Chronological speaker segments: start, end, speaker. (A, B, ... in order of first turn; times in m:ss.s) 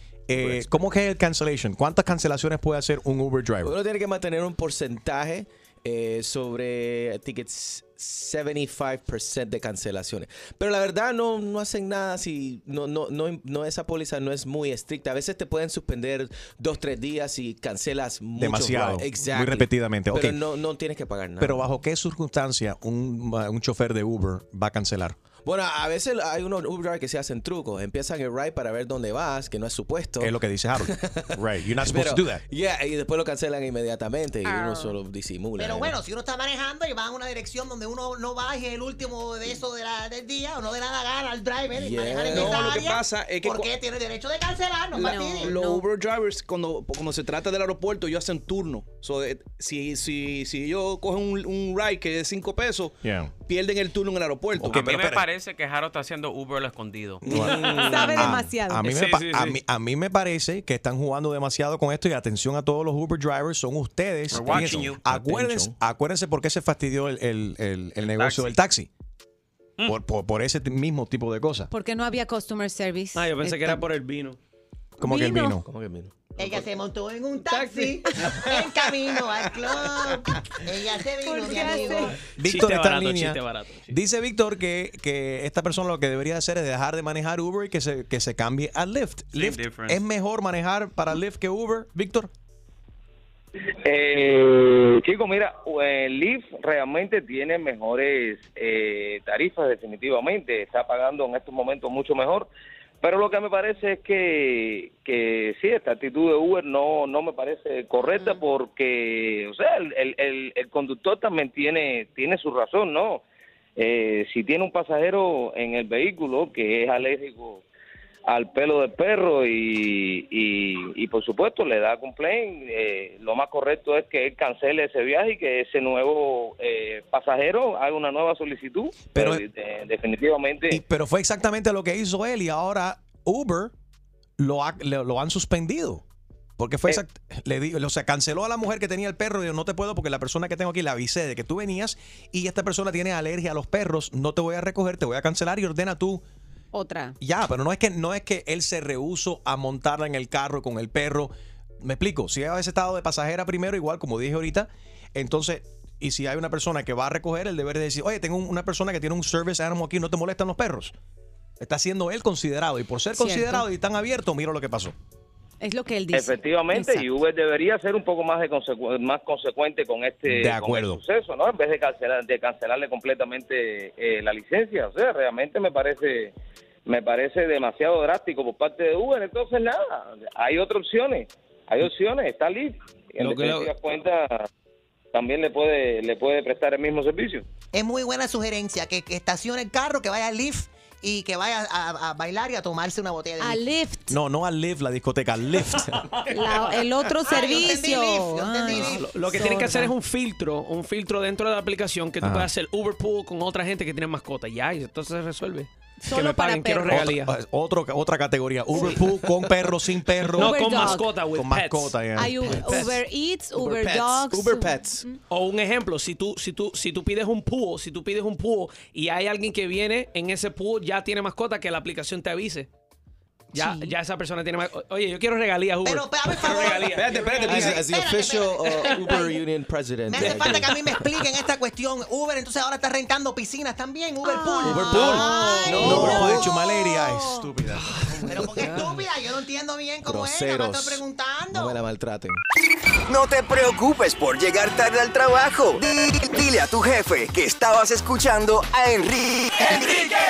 0:00.3-0:03.7 A
0:00.4-0:00.7 B
0:03.6-0:21.7 B
0:18.4-0:20.4 A
0:21.4-0:25.2 A
0:25.4-0:36.0 B
0:30.2-0:32.4 A
0:35.6-0:45.6 C
0:41.8-0:42.6 B
0:42.3-0:43.7 D
0:45.0-0:55.0 D
0:45.0-0:45.8 E
0:53.0-0:53.3 A
0:54.6-0:55.2 A
0:54.7-0:57.5 F
0:57.2-1:08.9 A
0:57.3-0:59.1 E
0:57.6-0:58.1 G
0:58.9-0:59.6 G
1:04.3-1:05.0 F
1:04.4-1:05.7 B
1:08.1-1:08.6 F
1:09.8-1:11.7 A
1:11.7-1:13.8 E
1:13.2-1:14.4 G
1:15.0-1:15.7 A
1:15.0-1:15.6 E
1:15.7-1:16.7 B
1:16.4-1:22.2 C
1:17.6-1:18.0 G
1:21.2-1:22.2 E
1:22.4-1:32.3 A
1:22.4-1:24.0 G
1:29.3-1:30.0 F
1:33.8-1:42.5 H
1:43.0-1:53.2 H
1:53.8-1:57.6 H
1:58.3-2:10.8 H
2:09.2-2:09.4 A
2:10.7-2:13.7 A
2:14.4-2:16.0 A
2:16.6-2:26.2 A
2:26.7-2:27.2 E
2:27.2-2:41.0 A
2:41.6-2:45.0 A
2:43.2-2:43.6 E
2:45.6-2:47.1 E
2:46.1-2:56.3 H
2:50.3-2:51.0 A
2:56.9-3:04.5 H
3:03.2-3:03.7 G
3:05.1-3:07.4 H
3:07.7-3:13.6 C
3:13.4-3:14.2 E
3:14.1-3:15.9 A
3:16.3-3:19.9 E
3:17.3-3:19.0 C
3:18.7-3:27.3 G
3:22.2-3:22.5 A
3:26.1-3:27.1 E
3:26.9-3:32.7 A
3:30.2-3:32.0 G
3:30.4-3:31.1 E
3:32.2-3:35.2 E
3:32.5-3:33.0 G
3:33.6-3:35.0 B
3:35.3-3:42.7 G
3:43.5-3:47.8 G
3:43.6-3:43.9 E
3:45.8-3:49.4 C
3:47.0-3:47.8 D
3:47.0-3:50.8 B
3:50.1-3:56.6 C
3:50.2-3:50.9 G
3:54.2-3:57.4 E
3:54.6-3:56.5 B
3:55.8-3:57.9 A
3:58.0-3:59.0 B
3:58.3-4:01.8 C
4:00.0-4:02.4 B
4:03.1-4:10.1 I